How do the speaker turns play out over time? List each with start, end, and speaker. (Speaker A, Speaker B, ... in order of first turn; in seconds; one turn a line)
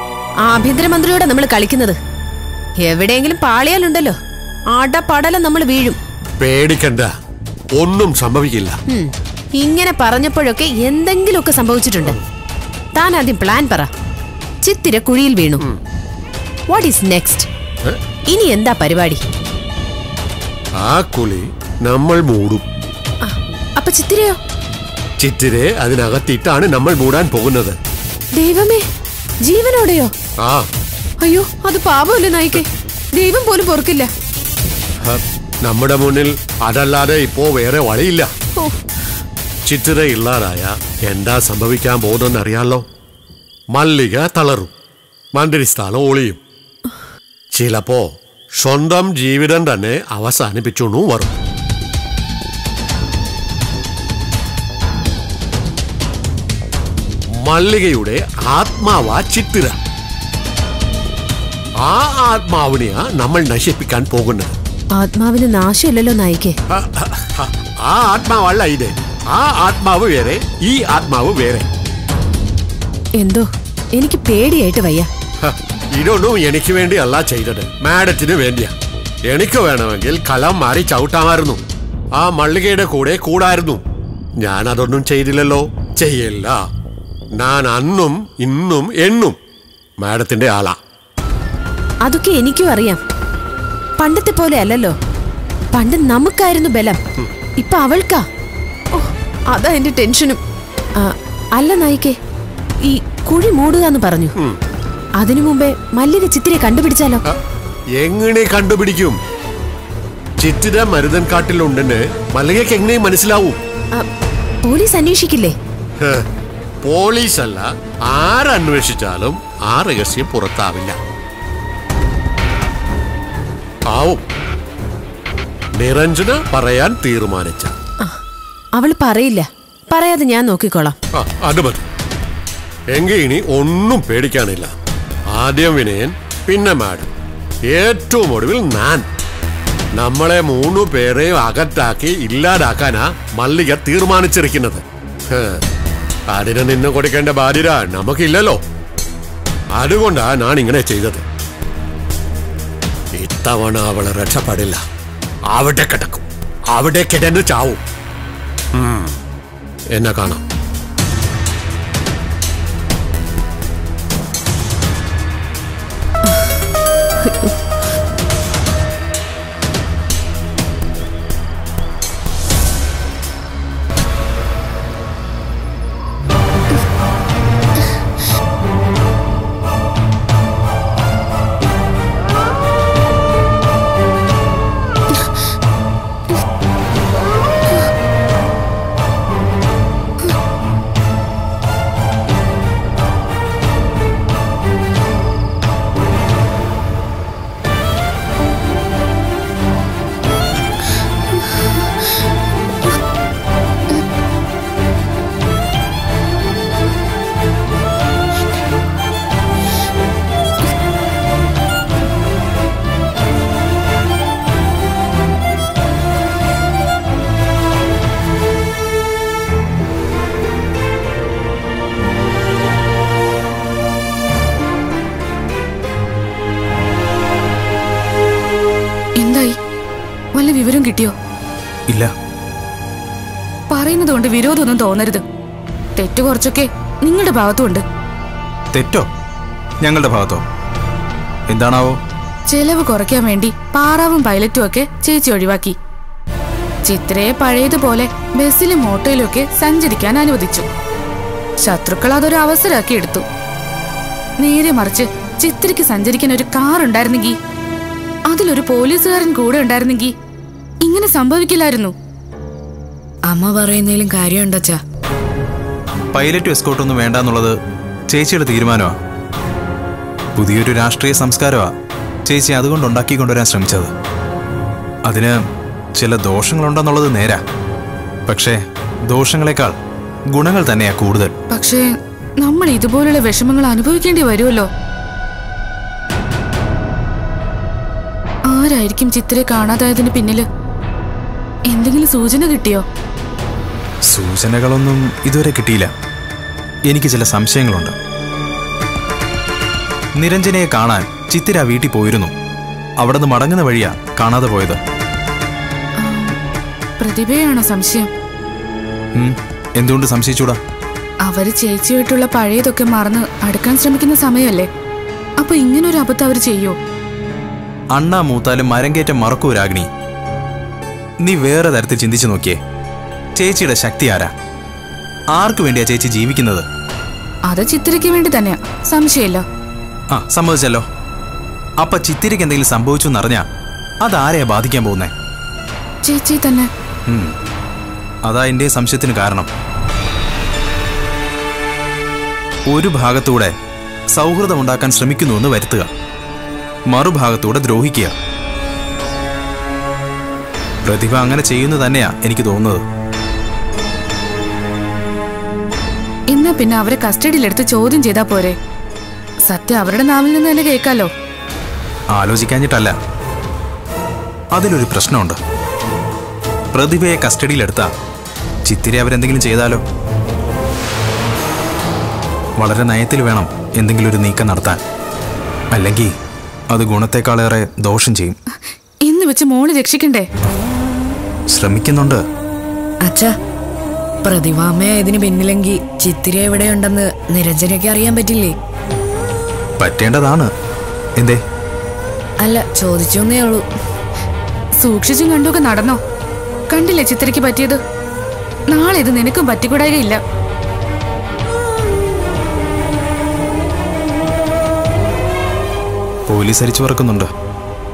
Speaker A: 0.5-2.0
Speaker A: 2.8-4.2
Speaker A: 4.7-6.0
Speaker B: 6.4-7.1
Speaker B: 7.8-8.7
Speaker A: 8.9-12.2
Speaker A: 12.9-13.9
Speaker A: 14.6-15.6
Speaker A: 16.7-17.5
Speaker A: 18.3-19.2
Speaker B: 20.8-22.6
Speaker A: 23.2-24.4
Speaker B: 25.2-27.8
Speaker A: 28.4-28.8
Speaker A: 29.4-30.1
Speaker A: 31.2-34.1
Speaker B: 35.0-38.3
Speaker B: 39.7-42.8
Speaker B: 43.7-44.7
Speaker B: 45.4-46.4
Speaker B: 47.5-48.0
Speaker B: 48.6-51.3
Speaker B: 57.5-59.8
Speaker B: 61.8-64.5
Speaker A: 64.9-66.5
Speaker B: 66.7-71.7
Speaker A: 73.2-75.1
Speaker B: 75.4-78.7
Speaker B: 79.3-81.6
Speaker B: 82.2-83.8
Speaker B: 84.4-86.6
Speaker B: 87.4-89.3
Speaker B: 90.0-90.8
Speaker A: 92.0-93.0
Speaker A: 94.0-94.9
Speaker A: 95.7-97.0
Speaker A: 97.6-98.2
Speaker A: 98.9-100.4
Speaker A: 101.0-102.2
Speaker A: 102.8-104.3
Speaker A: 105.2-107.2
Speaker B: 108.0-109.2
Speaker B: 110.4-113.6
Speaker A: 114.6-115.5
Speaker B: 116.8-121.0
Speaker B: 123.9-124.2
Speaker B: 125.8-127.7
Speaker A: 128.8-130.9
Speaker B: 131.2-131.8
Speaker B: 132.9-134.7
Speaker B: 135.3-137.1
Speaker B: 137.7-139.0
Speaker B: 140.0-145.6
Speaker B: 146.3-148.6
Speaker B: 149.8-151.2
Speaker B: 153.2-154.8
Speaker B: 155.5-157.8
Speaker B: 158.8-159.2
Speaker B: 159.9-160.4
Speaker C: 229.2-229.6
Speaker C: 230.3-231.1
Speaker C: 233.7-235.2
Speaker C: 235.9-237.8
Speaker D: 238.7-239.1
Speaker D: 239.8-240.4
Speaker D: 241.5-242.0
Speaker C: 242.5-245.7
Speaker C: 246.8-250.7
Speaker C: 251.6-253.2
Speaker C: 254.4-257.4
Speaker C: 258.3-260.1
Speaker C: 260.8-261.9
Speaker E: 263.3-264.8
Speaker D: 266.1-267.5
Speaker D: 268.1-268.9
Speaker D: 270.4-271.7
Speaker D: 272.2-273.9
Speaker D: 275.1-275.3
Speaker D: 276.0-277.4
Speaker D: 278.3-279.7
Speaker D: 280.3-281.3
Speaker C: 281.5-281.9
Speaker C: 282.4-284.7
Speaker C: 288.5-290.5
Speaker C: 291.7-292.8
Speaker D: 294.1-295.9
Speaker D: 296.9-297.9
Speaker D: 300.2-302.3
Speaker D: 303.0-304.8
Speaker C: 306.0-306.4
Speaker C: 307.0-308.1
Speaker D: 309.2-310.6
Speaker C: 311.3-314.7
Speaker C: 315.4-316.8
Speaker D: 317.9-319.9
Speaker D: 321.2-322.6
Speaker D: 323.4-324.3
Speaker D: 325.4-326.6
Speaker C: 327.5-329.4
Speaker D: 330.1-330.9
Speaker D: 331.8-333.4
Speaker D: 334.0-335.1
Speaker C: 336.0-336.7
Speaker D: 337.1-337.3
Speaker D: 338.2-339.5
Speaker D: 342.7-343.5
Speaker D: 344.1-345.9
Speaker D: 346.9-348.1
Speaker D: 350.9-352.8
Speaker C: 356.3-358.6
Speaker C: 359.5-361.1
Speaker D: 362.1-362.9
Speaker D: 364.5-365.4
Speaker D: 366.7-367.9
Speaker D: 368.6-369.8
Speaker D: 372.6-374.8
Speaker D: 375.7-376.1
Speaker D: 376.7-378.4
Speaker C: 379.1-380.3
Speaker D: 381.5-382.2
Speaker E: 384.3-388.5
Speaker D: 389.8-390.5
Speaker E: 392.6-393.6
Speaker C: 394.8-396.0
Speaker C: 396.7-397.8
Speaker C: 398.7-400.2
Speaker D: 406.3-407.3